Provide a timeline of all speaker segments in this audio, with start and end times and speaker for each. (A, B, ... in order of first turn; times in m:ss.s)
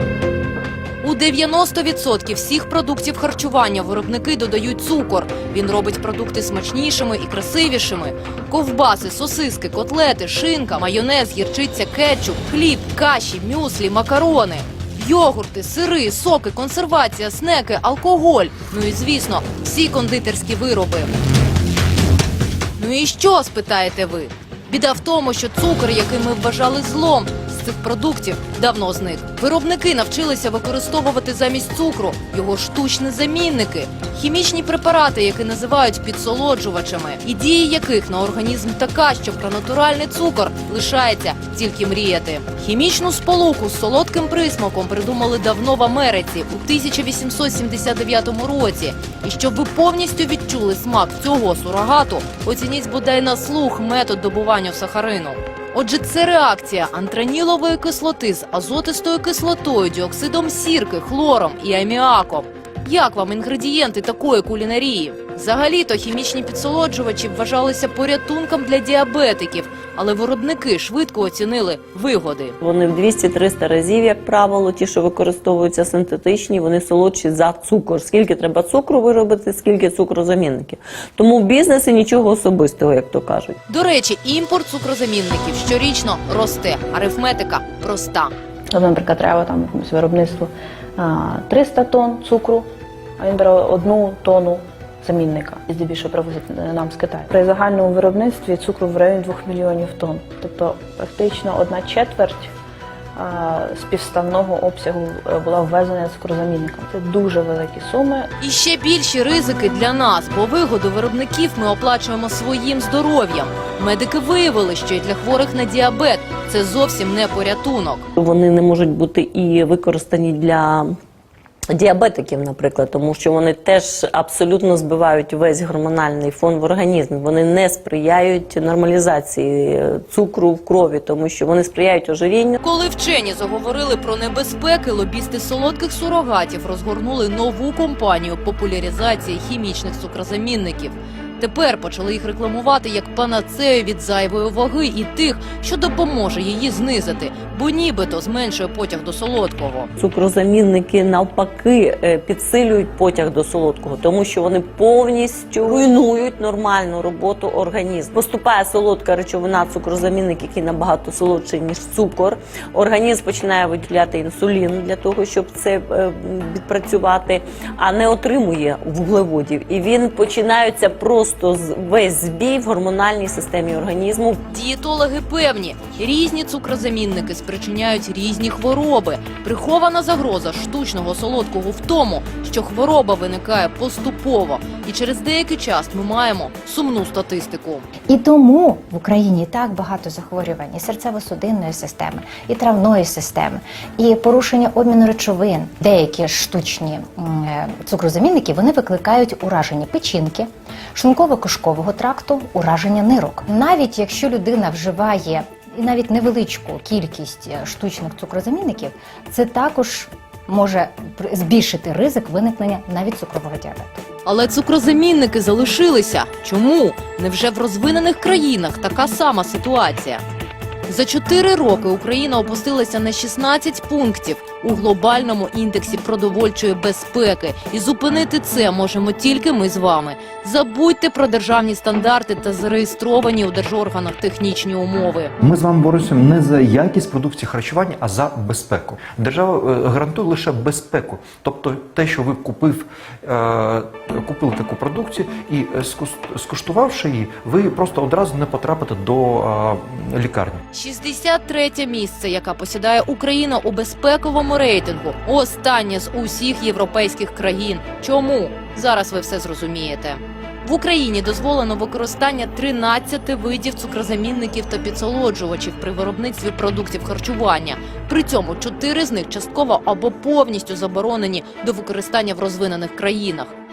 0:01.0-0:21.1 A
0:22.8-1:12.6 A
1:12.6-1:23.6 B
1:23.7-1:28.3 A
1:28.7-1:32.7 C
1:33.2-1:42.5 C
1:43.2-1:48.3 C
1:48.4-1:58.1 A
1:58.2-2:01.0 B
2:01.7-2:12.6 B
2:12.6-2:29.9 A
2:30.0-2:54.4 B
2:54.5-3:07.9 A
3:08.1-3:34.0 D
3:34.2-3:40.2 A
3:40.9-3:55.3 A
3:55.4-4:10.6 E
4:10.7-4:33.6 A